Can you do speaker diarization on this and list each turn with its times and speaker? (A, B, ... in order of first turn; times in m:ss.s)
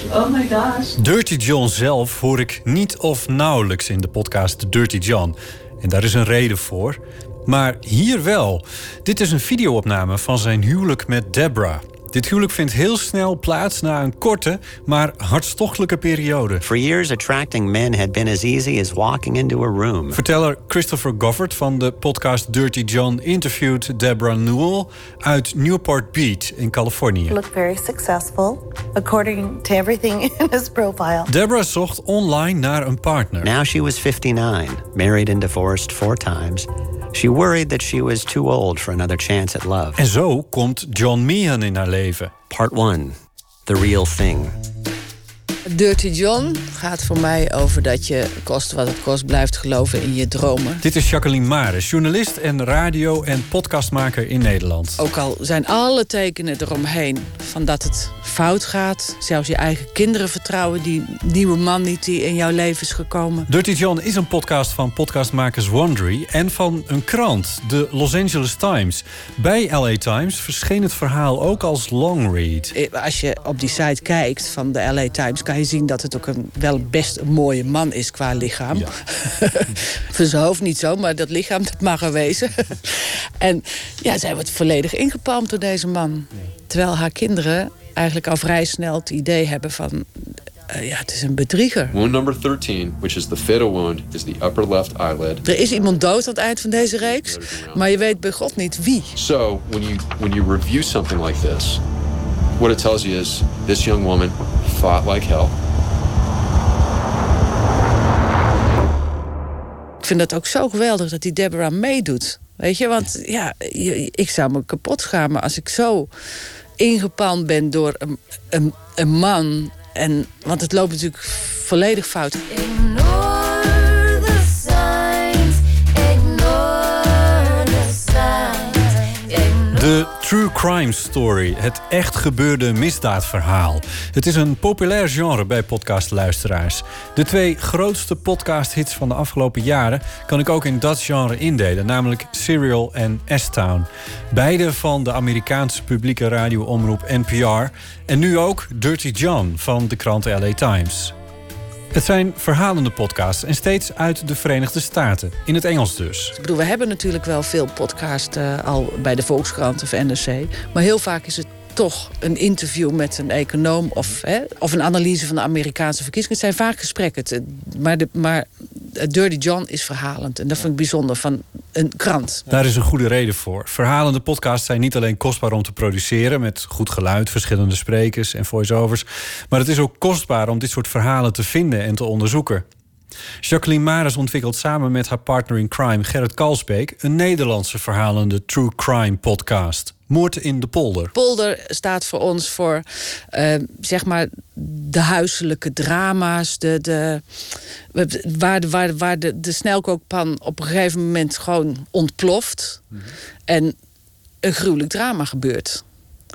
0:01.0-0:16.6 A
0:16.6-0:20.2 B
0:20.1-0:27.4 A
0:27.3-0:31.3 C
0:31.3-0:33.5 A
0:33.4-0:40.0 B
0:40.0-0:42.3 A
0:42.5-0:44.6 B
0:45.7-0:50.8 D
0:50.8-0:55.0 A
0:55.0-1:03.5 D
1:03.5-1:12.7 A
1:12.7-1:30.1 D
1:30.7-1:32.0 D
1:31.9-1:36.0 E
1:35.4-1:39.1 D
1:36.7-1:37.8 E
1:39.2-1:41.8 E
1:42.6-1:45.6 E
1:50.0-1:56.1 D
1:56.8-2:03.1 D
2:09.7-2:31.1 A
2:31.9-2:36.4 A
2:36.4-2:52.4 D
2:52.5-3:02.7 A
3:03.4-3:11.1 A
3:11.1-3:17.2 D
3:17.9-3:22.8 D
3:23.5-3:23.8 D
3:24.4-3:25.8 D